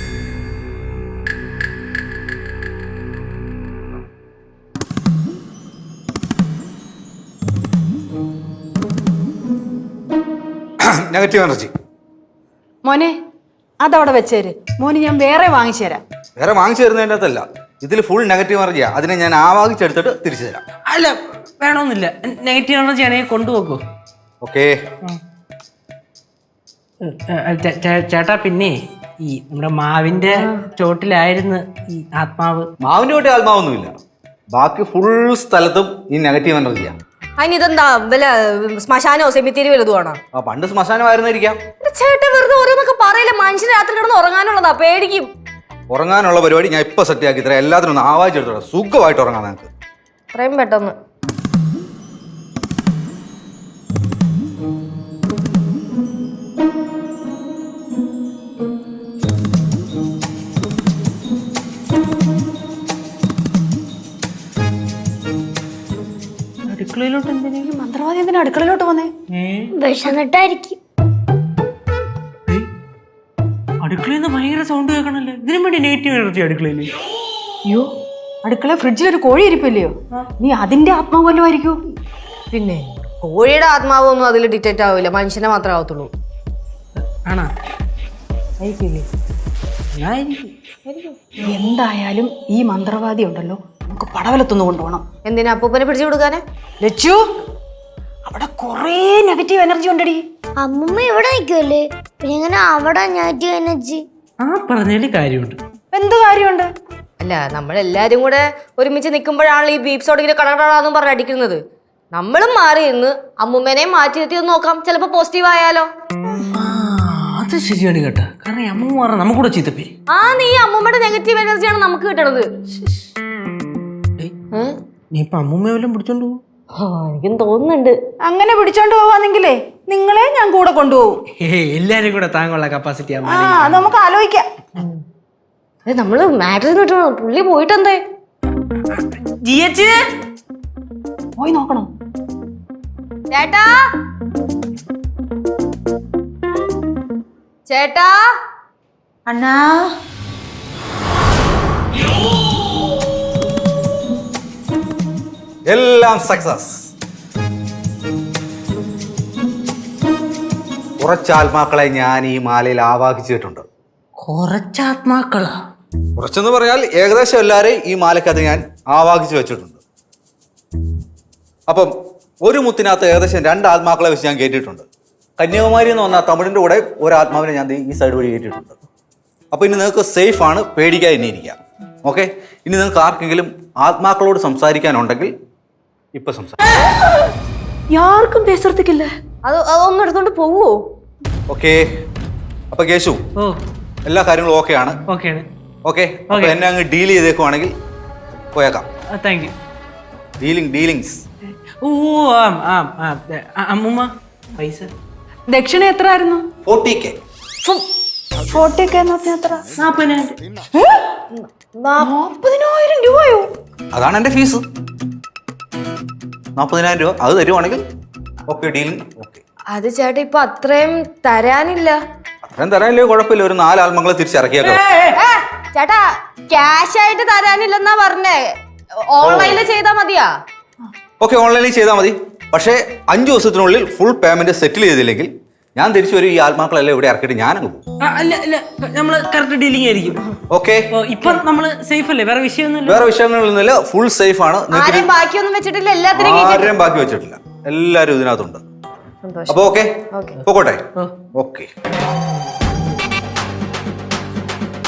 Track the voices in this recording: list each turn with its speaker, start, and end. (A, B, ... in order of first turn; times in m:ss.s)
0:10.8-0:11.7 A
0:12.8-0:13.1 B
0:13.8-0:16.0 B
0:16.4-0:20.6 A
0:20.8-0:23.8 C
0:24.4-0:24.8 A
0:27.0-0:32.7 C
0:32.8-0:33.9 A
0:34.5-0:36.9 A
0:37.4-0:40.2 D
0:40.3-0:41.6 A
0:41.8-0:45.3 D
0:45.9-0:49.7 A
0:50.3-0:50.9 D
1:06.7-1:07.7 C
1:07.6-1:09.1 B
1:09.3-1:09.7 C
1:09.7-1:10.8 E
1:13.8-1:16.9 C
1:18.4-1:21.7 B
1:22.5-1:26.1 D
1:27.0-1:27.5 C
1:28.6-1:29.0 B
1:29.9-1:30.5 C
1:30.9-1:31.1 D
1:31.5-1:35.0 B
1:35.3-1:36.4 D
1:36.8-1:37.2 B
1:38.3-1:40.2 B
1:40.6-1:44.0 E
1:44.4-1:45.6 C
1:45.9-1:46.7 B
1:47.2-1:51.6 D
1:52.1-1:55.9 D
1:56.5-1:59.9 C
2:00.1-2:02.4 D
2:05.1-2:06.4 C
2:06.8-2:07.9 D
2:08.2-2:11.1 B
2:11.4-2:13.8 C
2:13.2-2:14.4 B
2:15.9-2:18.0 D
2:18.9-2:20.0 C
2:21.4-2:21.9 B
2:23.3-2:23.7 D
2:27.7-2:28.2 D
2:29.3-2:29.6 B
2:35.7-2:36.9 A
2:41.0-2:43.6 A
2:44.2-2:45.5 C
2:46.2-2:49.8 A
2:52.4-2:54.8 A
2:55.4-2:58.7 A
2:59.5-3:05.3 A
3:06.1-3:06.6 A
3:07.9-3:09.0 B
3:09.4-3:10.7 D
3:11.5-3:11.8 A
3:12.7-3:13.2 A
3:14.0-3:15.0 A
3:15.1-3:15.4 C
3:15.8-3:17.7 A
3:16.3-3:16.6 C
3:18.5-3:18.8 A
3:19.1-3:19.5 C
3:20.4-3:21.2 A
3:21.8-3:24.9 C
3:25.5-3:26.4 B
3:26.6-3:27.2 A
3:28.5-3:29.6 B
3:29.8-3:30.4 C
3:31.4-3:32.1 D
3:32.0-3:33.4 B
3:33.9-3:34.6 A
3:36.6-3:37.8 A
3:38.5-3:39.4 A
3:39.7-3:42.0 D
3:42.4-3:44.8 A
3:44.6-3:45.1 C
3:45.1-3:48.5 D
3:49.1-3:50.3 D
3:49.2-3:49.6 A
3:51.2-3:57.8 A
3:58.0-4:00.2 C
4:00.5-4:00.9 A
4:00.9-4:03.1 C
4:02.9-4:05.1 A
4:04.7-4:06.7 D
4:06.1-4:08.6 A
4:09.2-4:10.4 D
4:09.5-4:09.9 A
4:10.4-4:11.7 A